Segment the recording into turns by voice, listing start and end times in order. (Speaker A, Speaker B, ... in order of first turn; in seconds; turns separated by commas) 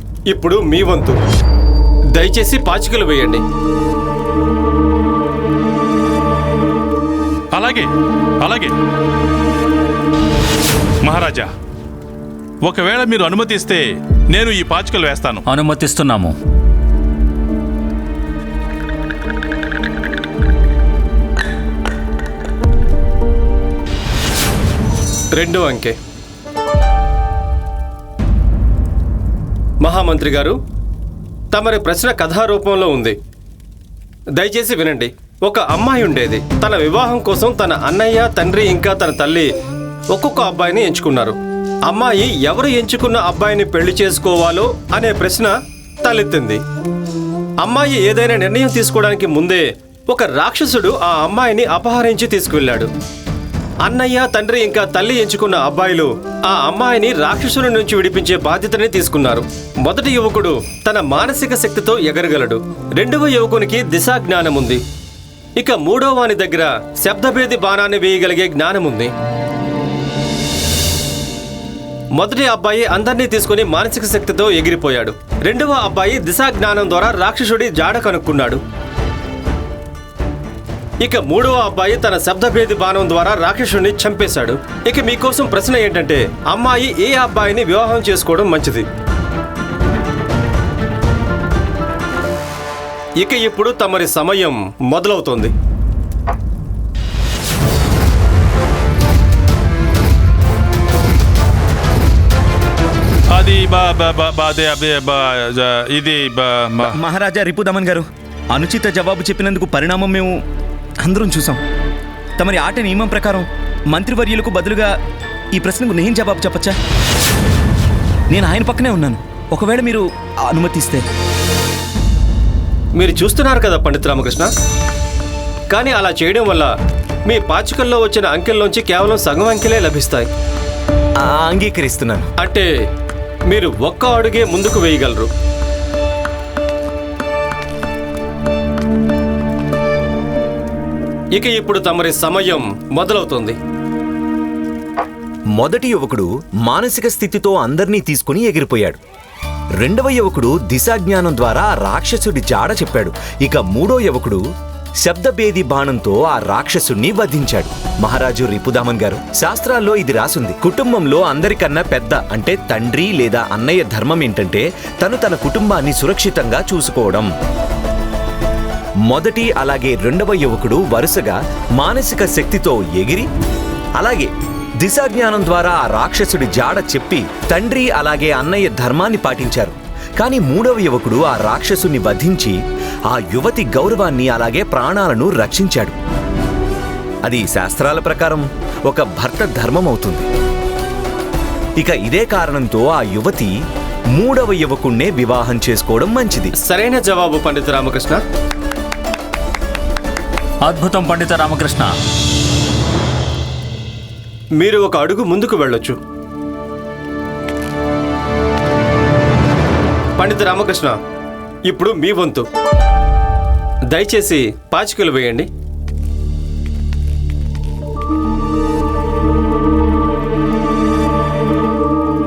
Speaker A: 0.3-1.2, Speaker A: 2.2-3.4, Speaker B: 7.6-7.9, Speaker B: 8.4-8.7, Speaker B: 11.1-11.5, Speaker B: 12.7-13.8, Speaker B: 14.3-15.4, Speaker C: 15.5-16.3, Speaker A: 25.4-25.9, Speaker A: 29.8-30.6, Speaker A: 31.5-33.2, Speaker A: 34.4-39.5, Speaker A: 40.1-41.4, Speaker A: 41.9-46.6, Speaker A: 47.6-52.9, Speaker A: 53.9-64.8, Speaker A: 65.6-69.1, Speaker A: 72.2-78.6, Speaker A: 81.0-88.9, Speaker A: 93.2-95.5, Speaker B: 103.3-106.9, Speaker D: 106.8-110.4, Speaker D: 111.0-111.6, Speaker D: 112.4-114.9, Speaker D: 115.5-116.8, Speaker D: 118.3-121.0, Speaker A: 123.0-124.5, Speaker A: 125.7-126.7, Speaker A: 127.3-130.3, Speaker E: 131.2-132.3, Speaker A: 132.4-132.7, Speaker A: 133.5-135.3, Speaker A: 141.3-143.6, Speaker E: 145.6-149.0, Speaker E: 149.8-154.4, Speaker E: 155.0-167.3, Speaker E: 169.1-173.3, Speaker E: 174.0-174.3, Speaker E: 174.8-182.6, Speaker E: 183.1-186.0, Speaker E: 187.2-190.3, Speaker E: 191.8-193.5, Speaker E: 194.2-196.5, Speaker A: 196.7-198.2, Speaker C: 200.7-201.9, Speaker A: 204.6-206.0, Speaker A: 210.2-211.0, Speaker A: 211.7-212.5, Speaker A: 213.9-215.5